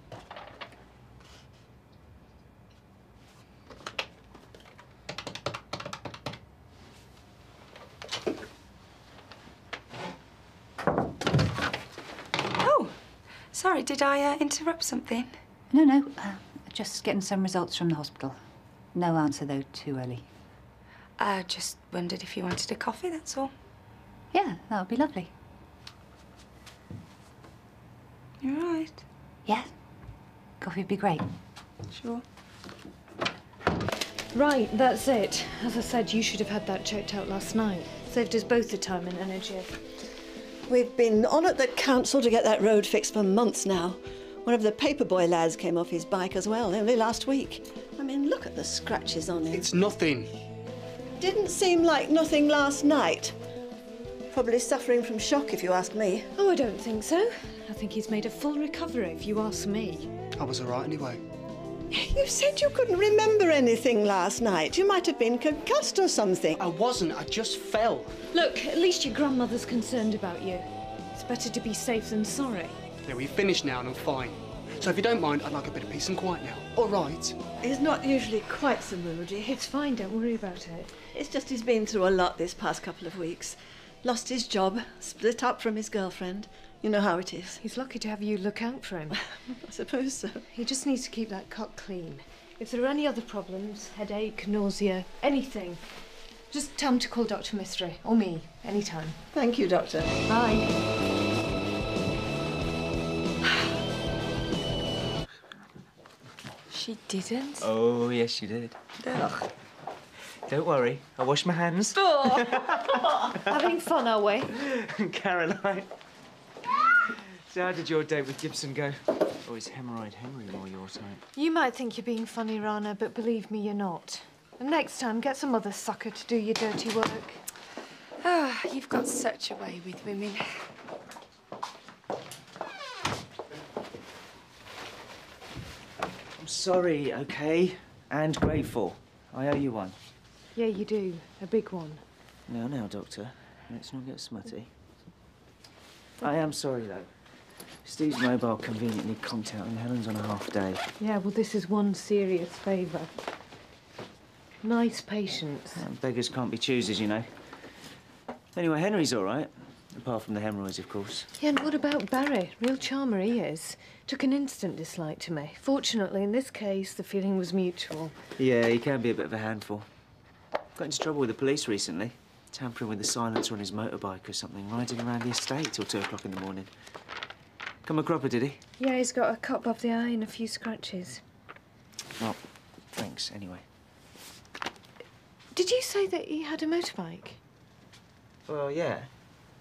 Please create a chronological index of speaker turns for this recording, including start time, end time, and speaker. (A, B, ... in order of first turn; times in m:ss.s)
0:12.6-0:15.4 A
0:15.7-0:20.3 B
0:21.2-0:23.5 A
0:24.3-0:25.3 B
0:28.4-0:29.0 A
0:30.6-0:31.2 B
0:31.9-0:32.2 A
0:34.3-0:39.9 C
0:40.7-0:49.7 D
0:49.5-0:50.3 E
0:51.2-0:53.4 D
0:54.3-0:56.3 D
0:56.4-1:00.1 C
1:00.4-1:01.2 E
1:02.0-1:06.6 D
1:06.6-1:08.2 E
1:08.3-1:12.8 C
1:13.1-1:17.4 E
1:17.6-1:19.6 D
1:19.5-1:20.9 C
1:21.1-1:27.6 D
1:27.6-1:29.2 C
1:29.1-1:30.5 D
1:30.5-1:35.8 C
1:36.5-1:39.2 C
1:39.3-1:40.2 D
1:40.3-1:40.8 C
1:46.7-1:47.4 A
1:47.3-1:47.6 C
1:47.6-1:48.8 F
1:49.0-1:49.4 A
1:50.4-1:53.0 F
1:52.1-1:52.6 C
1:53.5-1:54.5 C
1:54.6-1:55.9 F
1:57.4-2:01.2 F
2:01.3-2:07.4 C
2:08.2-2:10.6 A
2:16.4-2:20.0 F
2:20.5-2:22.0 C
2:22.5-2:24.7 F
2:26.2-2:27.1 F
2:27.8-2:30.8 F
2:31.0-2:33.1 C
2:34.6-2:35.8 C
2:35.8-2:37.3 F
2:38.5-2:41.3 F
2:41.4-2:48.2 C
2:48.4-2:49.9 F
2:50.8-2:56.7 F
2:57.8-2:58.6 F
2:58.8-3:01.2 C
3:02.2-3:03.6 F
3:05.5-3:07.4 C
3:08.5-3:09.1 F